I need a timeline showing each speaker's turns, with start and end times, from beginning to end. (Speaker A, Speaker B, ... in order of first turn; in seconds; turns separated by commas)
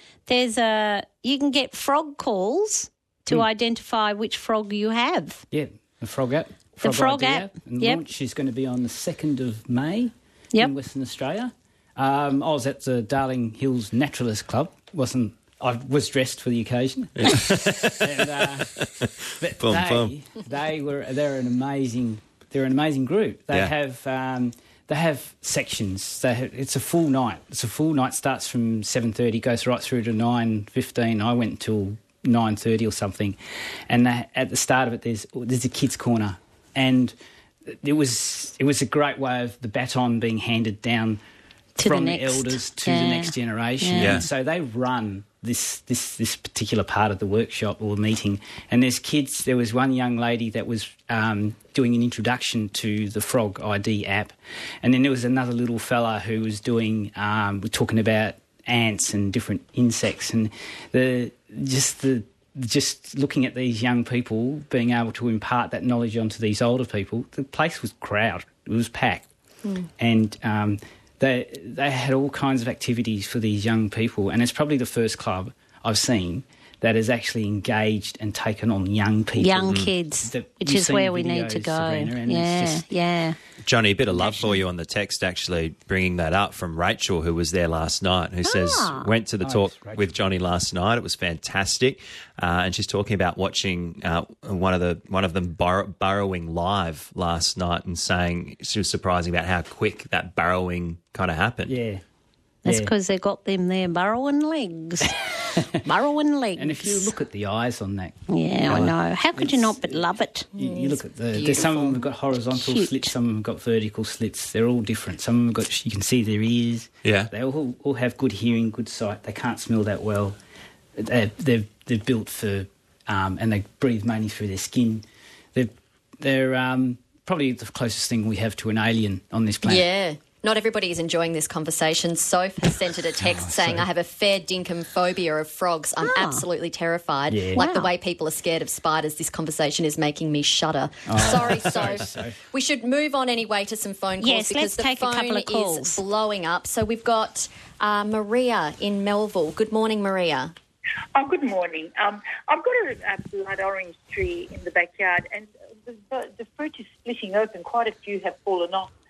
Speaker A: 0.3-5.4, Speaker B: 5.5-18.8, Speaker A: 6.8-8.0, Speaker C: 17.2-20.1, Speaker B: 19.4-33.4, Speaker B: 33.9-37.1, Speaker B: 37.7-41.2, Speaker A: 41.8-44.3, Speaker B: 41.8-69.3, Speaker C: 43.9-44.2, Speaker B: 70.0-82.9, Speaker A: 79.4-83.4, Speaker C: 79.7-79.9, Speaker C: 83.6-101.7, Speaker A: 84.2-84.5, Speaker A: 88.4-89.1, Speaker B: 89.4-90.1, Speaker B: 101.7-102.0, Speaker A: 102.6-105.2, Speaker B: 102.7-102.9, Speaker A: 105.8-107.1, Speaker B: 106.6-120.4, Speaker A: 108.3-110.5, Speaker D: 110.5-112.1, Speaker A: 112.5-113.1, Speaker C: 117.0-117.3, Speaker B: 121.0-125.0, Speaker B: 125.5-129.9, Speaker D: 129.6-150.5, Speaker B: 133.2-133.9, Speaker A: 136.0-136.4, Speaker B: 137.3-137.6, Speaker A: 137.6-137.9, Speaker B: 141.1-142.4, Speaker A: 144.2-146.0, Speaker E: 151.1-158.9